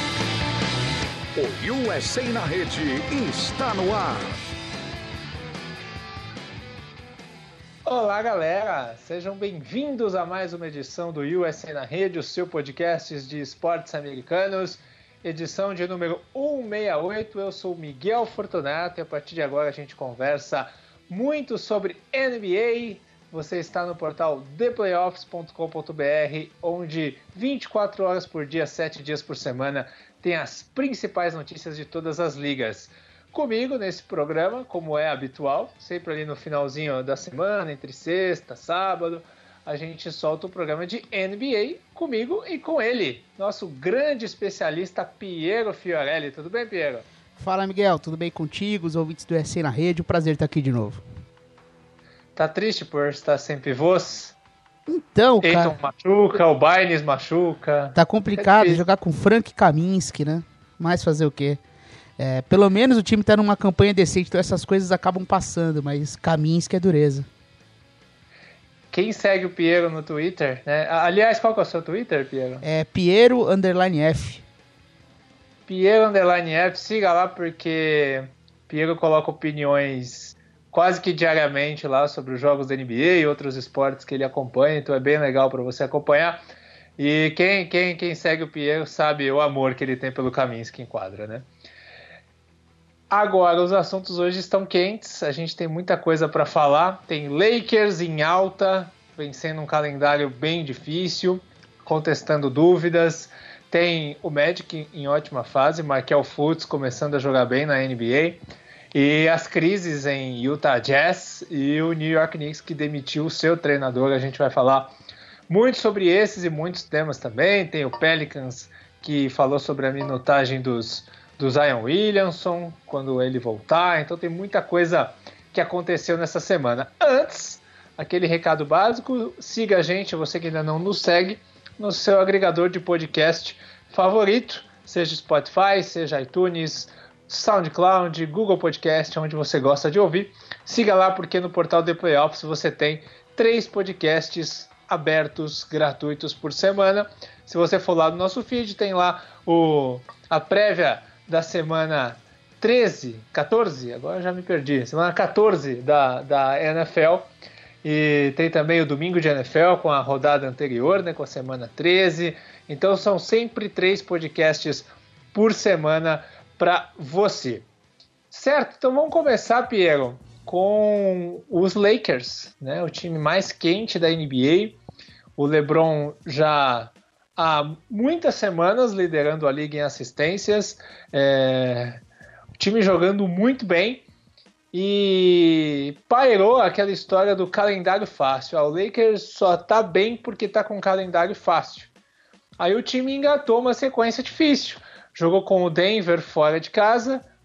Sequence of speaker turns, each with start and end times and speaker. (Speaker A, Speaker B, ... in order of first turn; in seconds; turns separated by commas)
Speaker A: 1.4-4.4, Speaker B: 7.9-47.1, Speaker C: 47.4-51.0, Speaker B: 52.4-54.4, Speaker C: 54.9-55.8, Speaker B: 55.4-58.8, Speaker C: 58.0-61.6, Speaker C: 62.2-67.3, Speaker B: 68.9-72.7, Speaker C: 72.6-74.4, Speaker B: 75.7-86.4, Speaker B: 87.0-91.5, Speaker B: 93.1-108.4, Speaker B: 108.9-114.9, Speaker B: 115.5-157.3, Speaker B: 157.8-167.7, Speaker B: 168.3-174.8, Speaker B: 175.4-182.0, Speaker B: 182.6-184.0, Speaker B: 184.7-191.9, Speaker B: 192.6-197.2